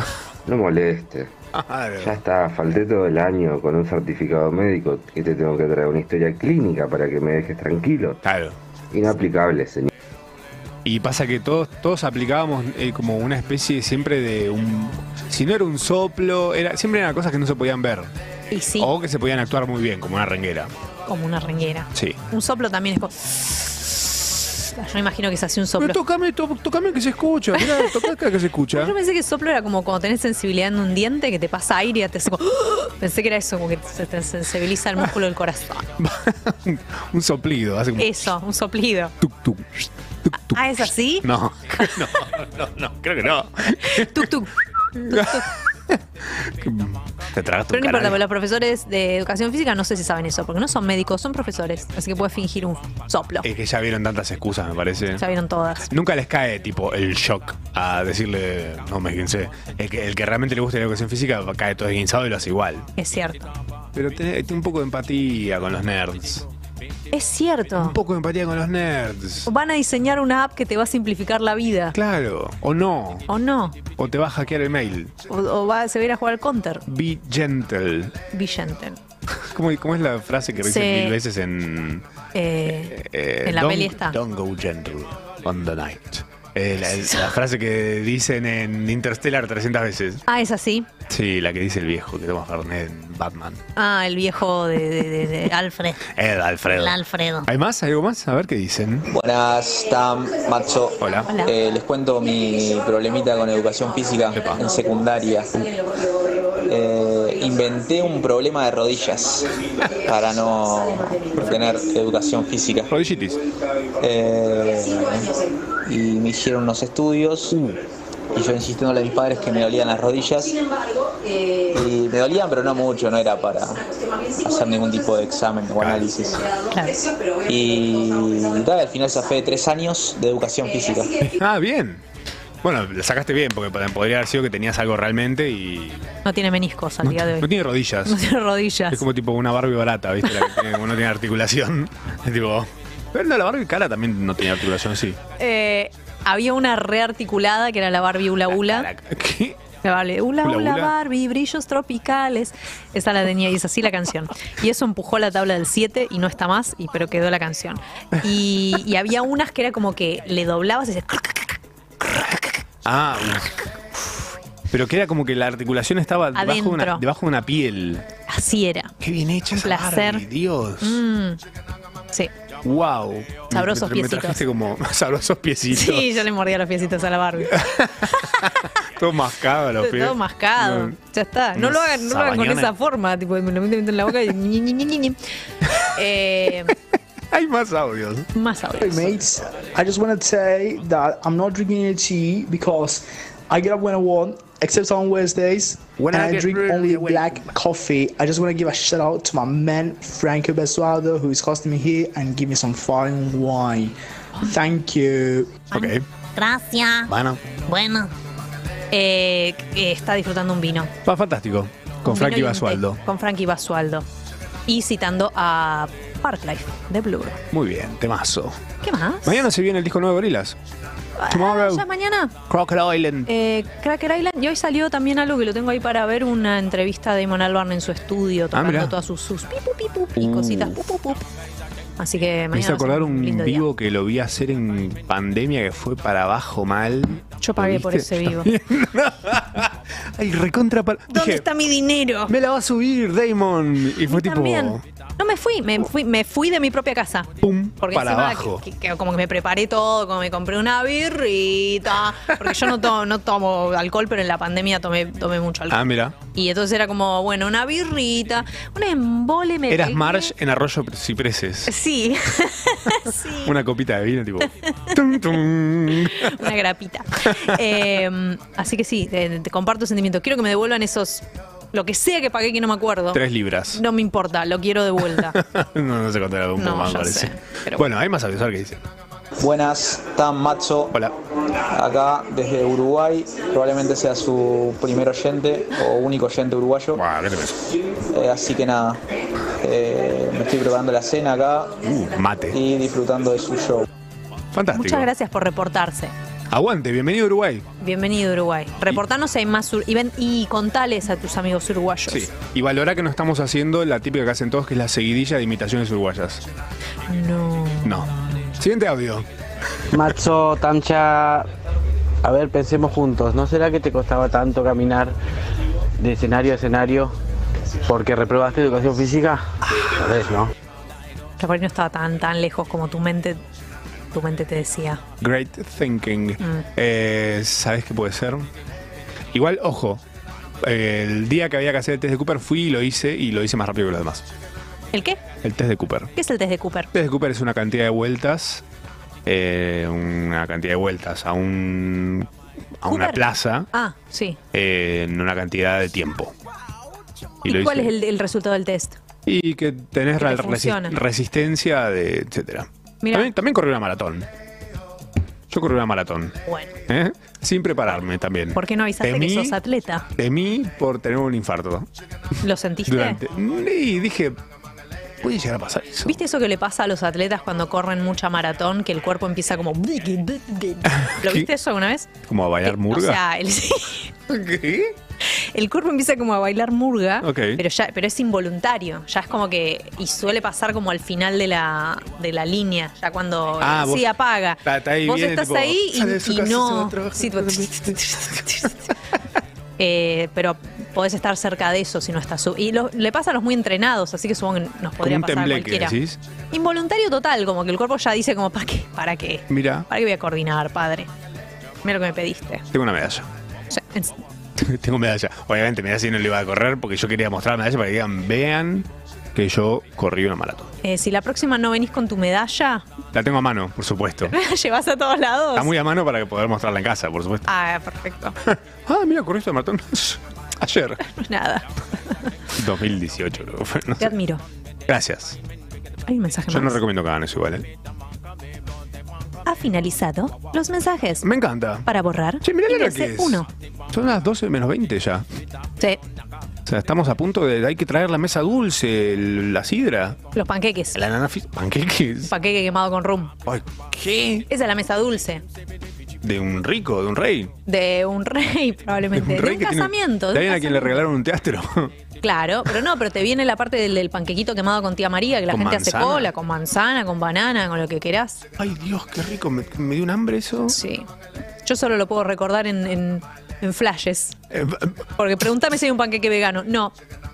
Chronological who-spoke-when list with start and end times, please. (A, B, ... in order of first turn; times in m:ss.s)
0:00.4-0:01.3 A
0:01.5-0:02.2 B
0:02.0-0:08.2 A
0:08.2-0:08.6 B
0:08.9-0:09.9 A
0:10.8-0:18.1 B
0:18.5-0:18.9 C
0:18.8-0:20.7 B
0:21.1-0:26.0 C
0:25.8-0:28.9 B
0:27.6-0:28.1 C
0:28.7-0:35.9 C
0:36.0-0:38.3 B
0:38.0-0:39.1 C
0:39.2-0:44.4 B
0:40.5-0:42.0 C
0:43.8-0:45.5 C
0:45.0-0:48.2 B
0:47.7-0:53.4 C
0:53.4-0:55.2 B
0:55.2-0:55.9 C
0:55.9-1:02.9 B
1:03.0-1:03.5 C
1:03.9-1:06.5 B
1:07.1-1:08.0 C
1:07.8-1:09.5 B
1:09.4-1:12.0 C
1:11.9-1:13.2 B
1:13.3-1:13.8 C
1:14.0-1:15.1 B
1:15.3-1:16.8 C
1:16.8-1:18.2 B
1:18.3-1:19.0 C
1:19.3-1:22.0 B
1:20.6-1:21.2 C
1:22.3-1:24.2 C
1:22.6-1:30.2 B
1:30.3-1:30.9 C
1:31.1-1:33.6 B
1:33.8-1:36.0 C
1:36.0-1:39.1 B
1:39.1-1:45.6 D
1:41.0-1:41.3 B
1:41.2-1:41.5 C
1:44.3-1:44.6 B
1:46.6-1:52.9 D
1:52.9-1:53.4 B
1:54.0-1:57.6 D
1:57.5-1:57.8 B
1:58.3-2:00.6 D
2:01.7-2:06.5 D
2:05.8-2:06.1 B
2:06.7-2:07.1 C
2:07.4-2:11.2 D
2:11.2-2:12.0 B
2:12.6-2:16.1 B
2:16.2-2:17.5 C
2:17.0-2:18.2 B
2:18.0-2:19.0 C
2:18.9-2:25.2 B
2:25.4-2:28.9 C
2:28.4-2:29.6 B
2:29.8-2:41.6 C
2:30.4-2:30.9 B
2:42.8-2:43.7 B
2:44.7-2:48.0 B
2:46.3-2:47.0 C
2:48.3-2:48.9 C
2:49.0-2:51.0 B
2:49.6-2:50.2 C
2:50.8-2:51.4 C
2:52.6-2:56.2 B
2:53.5-2:54.4 C
2:55.7-2:58.5 C
2:57.5-3:00.9 B
2:59.8-3:05.2 C
3:01.5-3:02.7 B
3:05.8-3:06.7 C
3:07.3-3:08.3 B
3:08.3-3:09.2 C
3:08.8-3:25.6 E
3:16.0-3:17.5 B
3:25.7-3:26.0 B
3:25.7-3:27.1 C
3:27.0-3:27.4 B
3:27.7-3:28.0 C
3:28.9-3:30.9 C
3:31.0-3:33.0 B
3:32.0-3:34.0 C
3:34.7-3:37.4 C
3:37.5-3:38.6 B
3:38.8-3:39.4 C
3:39.2-3:40.6 B
3:41.2-3:42.3 C
3:41.3-3:41.8 B
3:42.5-3:43.3 B
3:43.2-3:51.2 C
3:48.5-3:48.9 B
3:50.2-3:50.9 B
3:52.0-3:53.6 C
3:52.5-4:01.5 B
3:57.4-3:58.5 C
4:01.1-4:02.3 C
4:02.3-4:04.8 B
4:04.0-4:20.3 C
4:07.4-4:08.6 B
4:12.4-4:12.8 B
4:15.7-4:16.2 B
4:19.7-4:21.7 B
4:21.7-4:23.5 C
4:23.2-4:26.5 B
4:26.0-4:35.4 C
4:27.2-4:27.8 B
4:33.1-4:33.8 B
4:35.1-4:38.8 B
4:36.6-4:37.8 C
4:39.4-4:40.9 D
4:41.7-4:47.0 D
4:46.9-4:47.6 B
4:48.1-4:49.0 D
4:49.6-4:51.8 D
4:51.8-4:52.6 B
4:52.5-4:53.8 D
4:54.5-4:55.1 B
4:54.7-4:56.1 C
4:56.5-4:57.6 B
4:57.8-5:02.3 C
5:02.1-5:06.4 B
5:07.1-5:08.1 C
5:07.8-5:09.3 B
5:09.9-5:11.5 F
5:12.2-5:15.1 F
5:16.0-5:17.1 F
5:17.8-5:20.5 F
5:21.4-5:23.4 C
5:24.1-5:25.0 C
5:25.2-5:28.5 B
5:29.3-5:30.0 B
5:30.6-5:34.2 B
5:34.9-5:35.2 C
5:35.4-5:36.1 B
5:36.2-5:36.9 C
5:36.9-5:38.6 B
5:39.2-5:42.3 B
5:42.8-5:43.7 B
5:42.9-5:44.4 C
5:44.5-5:46.3 B
5:47.4-5:47.9 B
5:47.4-5:49.0 C
5:49.2-5:54.3 B
5:50.2-5:51.0 C
5:53.0-5:53.3 C
5:55.5-5:56.4 B
5:56.4-5:56.7 C
5:56.9-5:59.6 B
5:58.5-6:00.1 C
6:00.2-6:01.9 B
6:02.4-6:03.2 C
6:02.9-6:04.4 B
6:05.2-6:06.2 B
6:06.0-6:12.1 C
6:10.9-6:11.5 B
6:12.2-6:13.2 B
6:12.6-6:14.1 C
6:14.3-6:15.0 B
6:15.2-6:28.8 C
6:17.2-6:17.6 B
6:23.6-6:24.1 B
6:24.6-6:28.7 B
6:29.8-6:36.0 C
6:35.0-6:36.2 B
6:36.5-6:41.1 C
6:39.5-6:39.9 B
6:41.8-6:42.6 C
6:42.7-6:43.3 B
6:43.7-6:44.2 C
6:44.6-6:50.7 B
6:50.8-6:52.8 C
6:53.1-6:54.4 B
6:54.3-6:55.7 C
6:55.5-6:57.5 B
6:57.5-6:58.4 C
6:58.4-7:01.0 B
7:01.0-7:02.3 C
7:02.5-7:04.1 B
7:04.0-7:04.4 C
7:04.9-7:05.4 B
7:06.1-7:06.8 C
7:06.5-7:07.7 B
7:09.4-7:11.2 C
7:11.2-7:11.9 B
7:11.8-7:13.5 C
7:12.4-7:15.2 B
7:16.6-7:20.2 B
7:20.3-7:21.0 C
7:20.9-7:22.3 B
7:22.2-7:23.4 C
7:23.4-7:24.4 B
7:24.5-7:25.4 C
7:26.2-7:27.5 B
7:27.6-7:31.0 C
7:29.1-7:31.9 B
7:32.2-7:38.4 C
7:35.5-7:36.3 B
7:38.6-7:40.8 B
7:40.7-7:41.1 C
7:41.6-7:44.4 C
7:44.5-7:45.0 B
7:45.2-7:46.9 C